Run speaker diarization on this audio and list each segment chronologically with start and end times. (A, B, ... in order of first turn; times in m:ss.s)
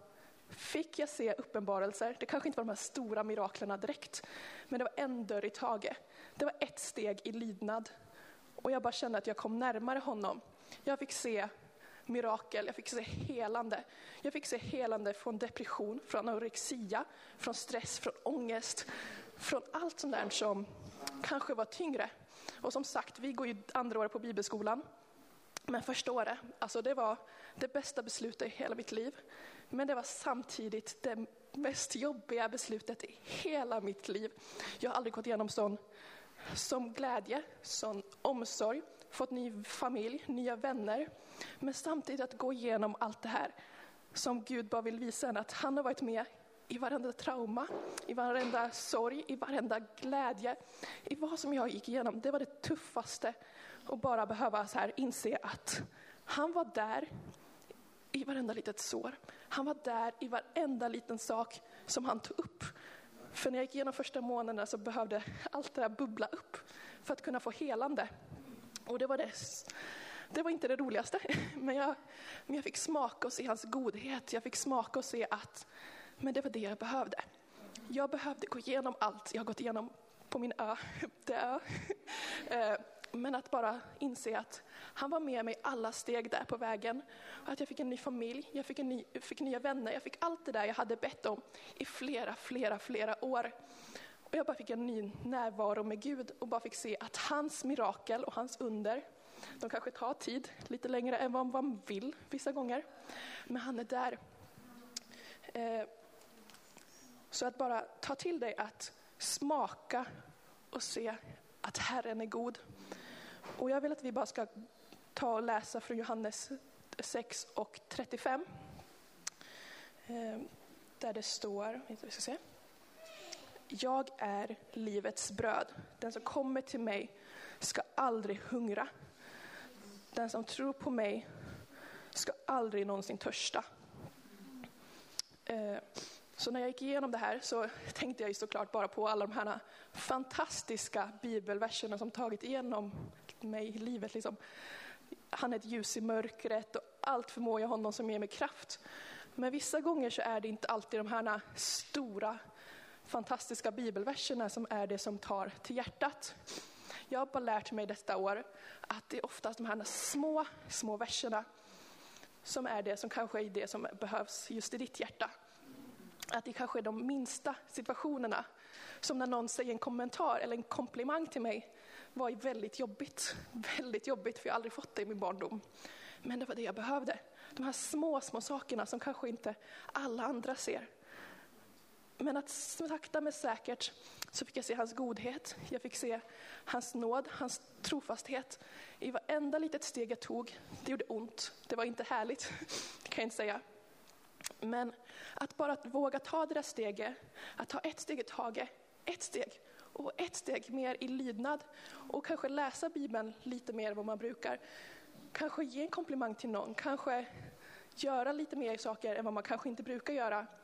0:00.5-0:07.9 A
0:08.6-0:11.5 A
0:12.1-0:18.9 A
0:19.4-0:20.6 A
0:21.2-0:22.1 A
0:22.6-0:24.8 A
0:25.7-0:29.2 A
0:29.7-0:35.8 A
0:36.5-0:41.1 A
0:41.6-0:43.5 A
0:44.1-0:53.3 A
0:53.9-0:57.1 A
0:58.1-1:02.7 A
1:03.3-1:08.1 A
1:08.9-1:09.7 A
1:10.3-1:12.0 A
1:12.5-1:15.6 A
1:16.2-1:17.2 A
1:17.9-1:33.5 A
1:34.3-1:39.0 A
1:39.6-1:42.8 A
1:43.5-1:44.2 A
1:45.5-1:45.9 A
1:47.3-1:50.0 A
1:50.7-1:52.6 A
1:53.6-1:54.5 A
1:55.1-1:58.4 A
2:00.1-2:02.4 A
2:03.7-2:08.9 A
2:10.1-2:11.2 A
2:12.1-2:13.6 A
2:15.4-2:15.8 A
2:16.4-2:24.4 A
2:25.3-2:28.8 A
2:29.4-2:32.4 A
2:33.0-2:36.3 A
2:37.1-2:41.4 A
2:42.4-2:45.3 A
2:46.3-2:48.4 A
2:49.0-2:55.6 A
2:56.2-3:00.9 A
3:02.2-3:13.6 A
3:14.6-3:24.6 A
3:25.3-3:27.3 A
3:28.0-3:30.5 A